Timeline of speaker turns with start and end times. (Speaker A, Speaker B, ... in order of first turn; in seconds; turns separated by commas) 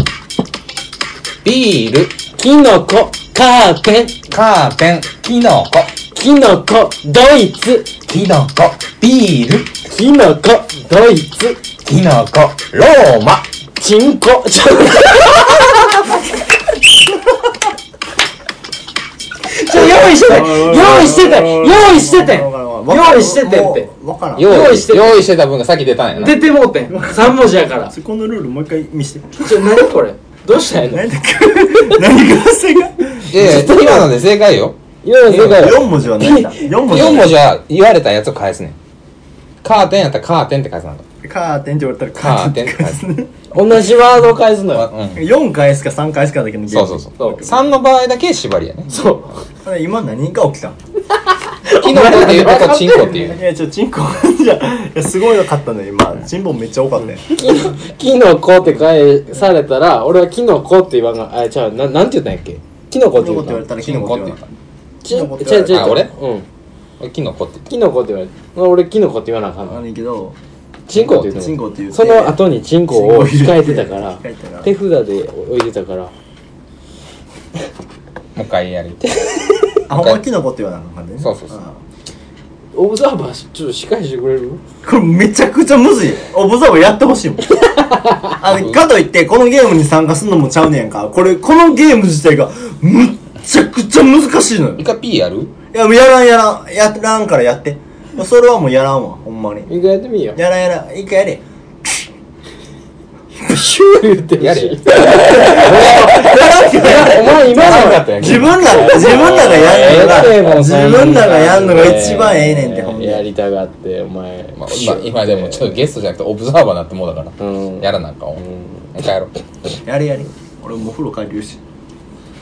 Speaker A: 1.4-2.1, Speaker B: 2.4-4.2, Speaker A: 4.3-5.9, Speaker B: 6.1-7.9, Speaker A: 8.1-9.7, Speaker B: 9.9-11.6, Speaker A: 11.8-13.4, Speaker B: 13.8-16.2, Speaker B: 19.4-23.9, Speaker C: 20.0-24.8, Speaker A: 24.4-26.4, Speaker B: 24.4-25.2, Speaker B: 26.1-27.9, Speaker C: 26.9-29.5, Speaker B: 29.4-31.1, Speaker C: 30.8-33.8, Speaker A: 33.3-34.8, Speaker B: 33.3-34.1, Speaker B: 35.0-37.1, Speaker A: 35.3-35.7, Speaker C: 35.3-37.4, Speaker A: 36.8-38.8, Speaker A: 39.6-41.0, Speaker C: 41.2-43.3, Speaker A: 42.2-43.0, Speaker B: 43.5-44.9, Speaker A: 44.7-45.2, Speaker C: 45.1-47.8, Speaker A: 46.7-49.0, Speaker B: 48.9-49.4, Speaker C: 49.6-50.8, Speaker B: 51.6-53.4, Speaker A: 51.7-53.4, Speaker C: 53.3-57.2, Speaker B: 57.2-63.6, Speaker C: 63.1-64.4, Speaker A: 63.8-64.4, Speaker B: 65.0-66.5, Speaker C: 65.1-66.0, Speaker A: 65.7-66.1, Speaker A: 67.0-67.7, Speaker B: 67.7-69.8, Speaker C: 69.6-70.4, Speaker B: 70.9-76.1, Speaker C: 70.9-74.7, Speaker A: 78.3-79.0, Speaker B: 79.1-79.4, Speaker C: 79.9-81.8, Speaker A: 79.9-80.2, Speaker A: 81.2-81.5, Speaker B: 82.7-84.6, Speaker C: 84.8-87.6, Speaker B: 87.8-88.3, Speaker C: 88.4-94.8, Speaker A: 88.4-88.8, Speaker A: 94.8-95.5, Speaker C: 95.7-99.7, Speaker B: 99.7-100.4, Speaker C: 100.3-101.4, Speaker B: 103.3-115.8, Speaker A: 104.4-110.3, Speaker C: 105.2-113.2, Speaker A: 114.6-118.4, Speaker B: 117.4-118.8, Speaker A: 118.9-119.3, Speaker C: 119.8-121.6